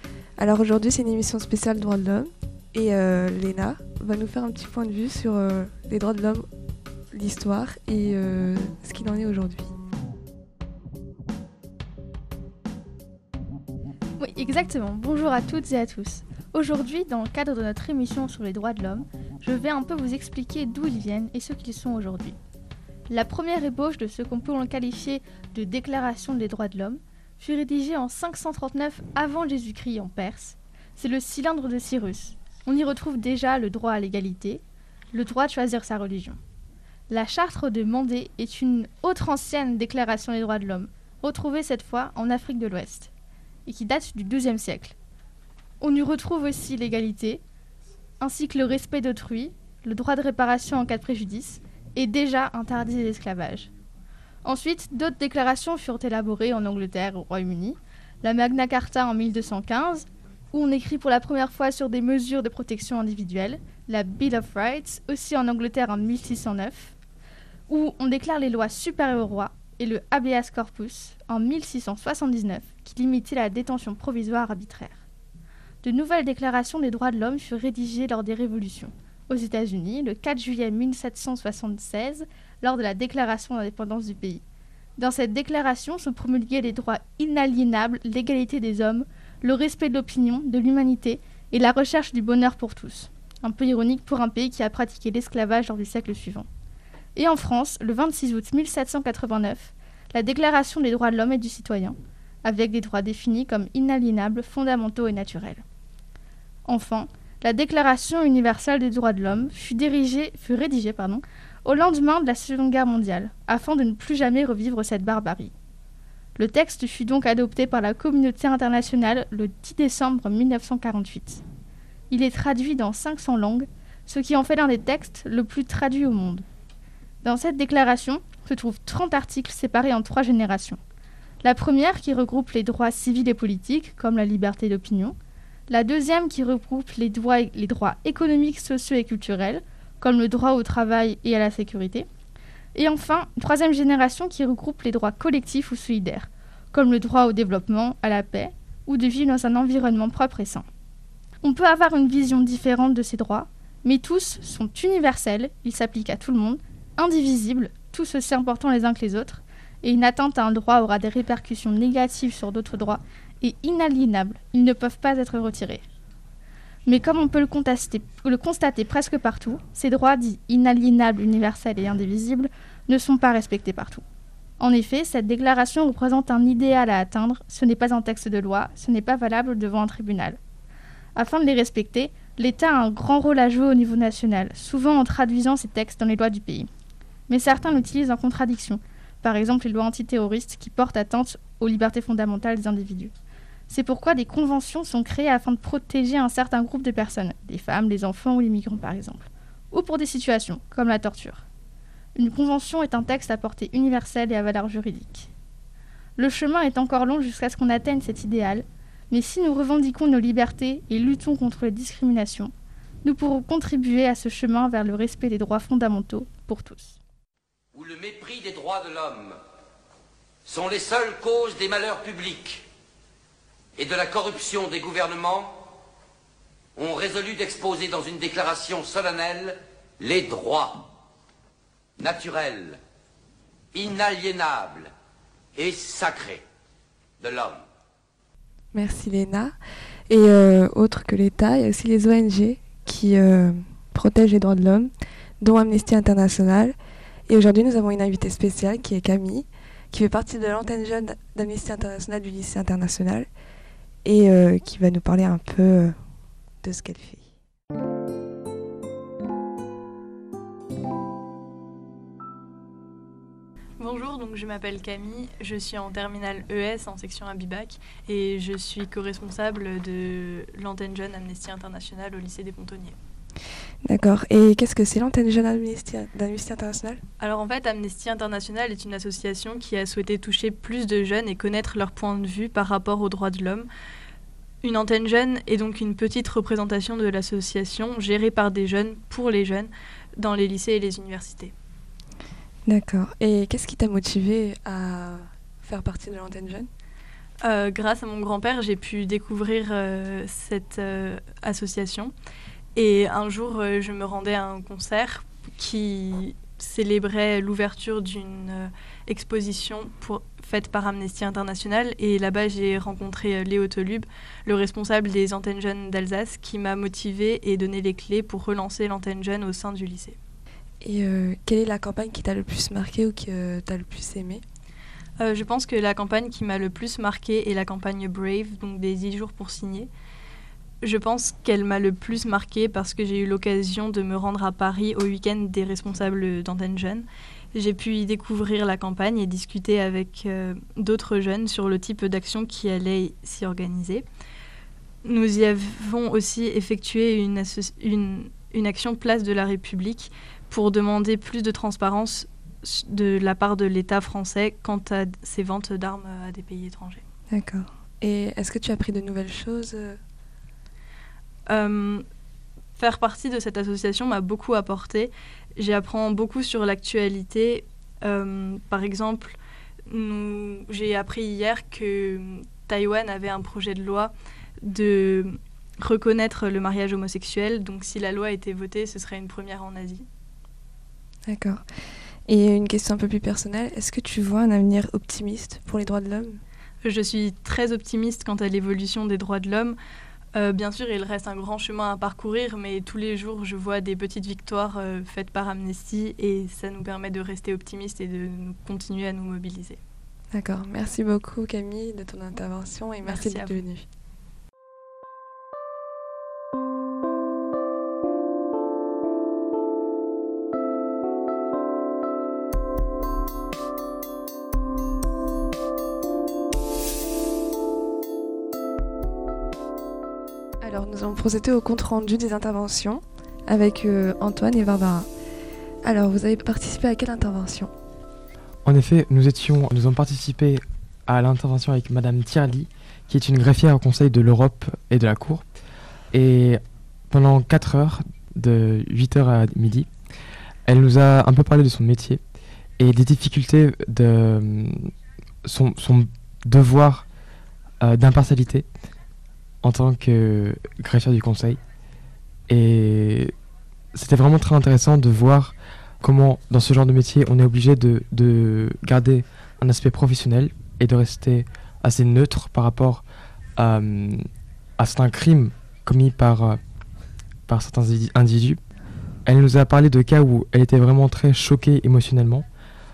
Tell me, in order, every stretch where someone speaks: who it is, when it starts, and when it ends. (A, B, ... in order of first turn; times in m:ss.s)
0:00.4-0:06.5 A
0:07.1-0:09.8 A
0:14.2-0:22.4 B
0:23.1-0:36.4 B
0:37.1-0:43.1 B
0:43.6-0:45.0 B
0:45.8-0:47.4 B
0:48.2-0:53.7 B
0:54.4-1:06.9 B
1:07.7-1:15.0 B
1:15.8-1:24.4 B
1:25.0-1:36.5 B
1:37.1-1:45.6 B
1:46.7-1:55.5 B
1:56.4-2:01.4 B
2:02.1-2:06.4 B
2:07.2-2:10.8 B
2:11.4-2:15.2 B
2:15.7-2:22.1 B
2:22.7-2:30.6 B
2:31.4-2:45.8 B
2:46.8-2:54.0 B
2:54.6-3:00.4 B
3:01.2-3:06.7 B
3:07.3-3:13.1 B
3:13.7-3:21.4 B
3:22.1-3:25.3 B
3:26.2-3:32.5 B
3:33.0-3:37.0 B
3:37.7-3:39.4 C
3:40.4-3:42.6 C
3:43.8-3:45.7 C
3:46.8-3:50.9 C
3:52.0-3:52.8 C
3:53.7-3:54.9 C
3:55.5-3:56.4 C
3:57.2-3:57.6 C
3:58.7-3:59.6 A
4:00.1-4:06.8 A
4:07.3-4:13.3 A
4:14.0-4:16.0 A
4:16.6-4:17.3 A
4:23.8-4:33.0 D
4:33.8-4:37.0 A
4:37.2-4:43.7 D
4:44.6-4:51.5 D
4:52.6-4:56.7 A
4:57.4-5:02.1 D
5:02.8-5:20.2 D
5:20.8-5:24.4 A
5:25.2-5:29.9 D
5:30.8-5:44.0 D
5:45.0-5:57.0 D
5:57.3-6:00.0 A
6:01.5-6:02.0 D
6:02.8-6:20.0 D
6:21.3-6:21.6 A
6:22.2-6:26.4 A
6:26.8-6:29.8 D
6:30.3-6:39.8 D
6:40.3-6:43.8 A
6:43.0-6:43.6 D
7:00.6-7:05.1 A
7:05.8-7:07.7 A
7:08.6-7:15.4 E
7:16.1-7:19.9 E
7:20.7-7:22.2 E
7:22.8-7:24.9 E
7:25.4-7:27.0 E
7:27.8-7:28.7 E
7:29.6-7:31.6 E
7:32.5-7:33.3 E
7:33.9-7:43.0 E
7:43.6-7:44.3 E
7:44.8-7:46.6 E
7:47.5-7:48.6 E
7:49.2-7:52.4 E